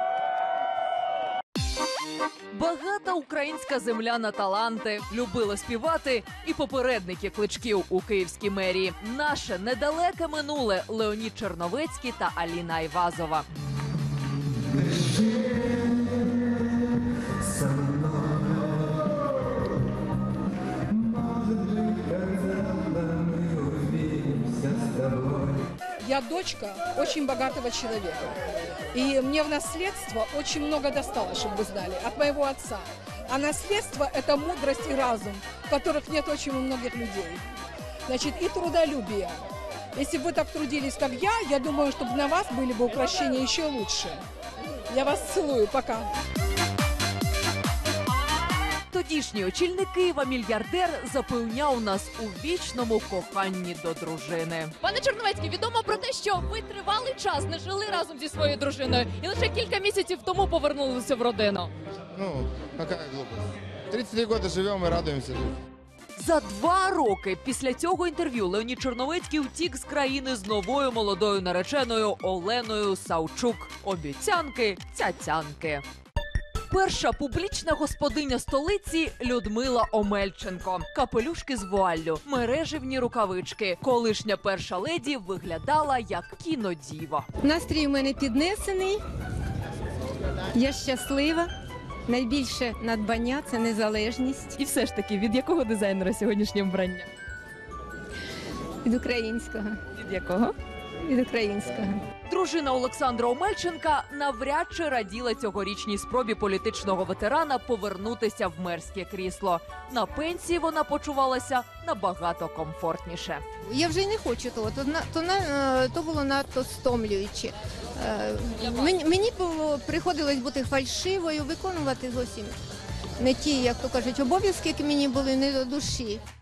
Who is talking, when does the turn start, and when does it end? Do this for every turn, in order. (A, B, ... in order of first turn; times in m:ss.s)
0:02.5-0:13.5 A
0:26.0-0:37.4 B
0:38.1-0:39.4 B
0:40.0-0:44.2 B
0:44.9-0:46.1 B
0:48.9-0:54.8 A
0:54.8-1:01.7 C
1:02.2-1:03.3 D
1:03.9-1:05.5 D
1:06.2-1:15.8 A
1:16.7-1:27.3 A
1:27.4-1:29.0 E
1:30.5-1:31.5 E
1:32.1-1:34.6 E
1:34.6-1:37.0 C
1:38.8-1:39.7 E
1:41.0-1:42.0 E
1:42.3-1:53.4 A
1:53.7-2:02.6 E
1:58.6-1:58.9 A
2:03.2-2:06.2 E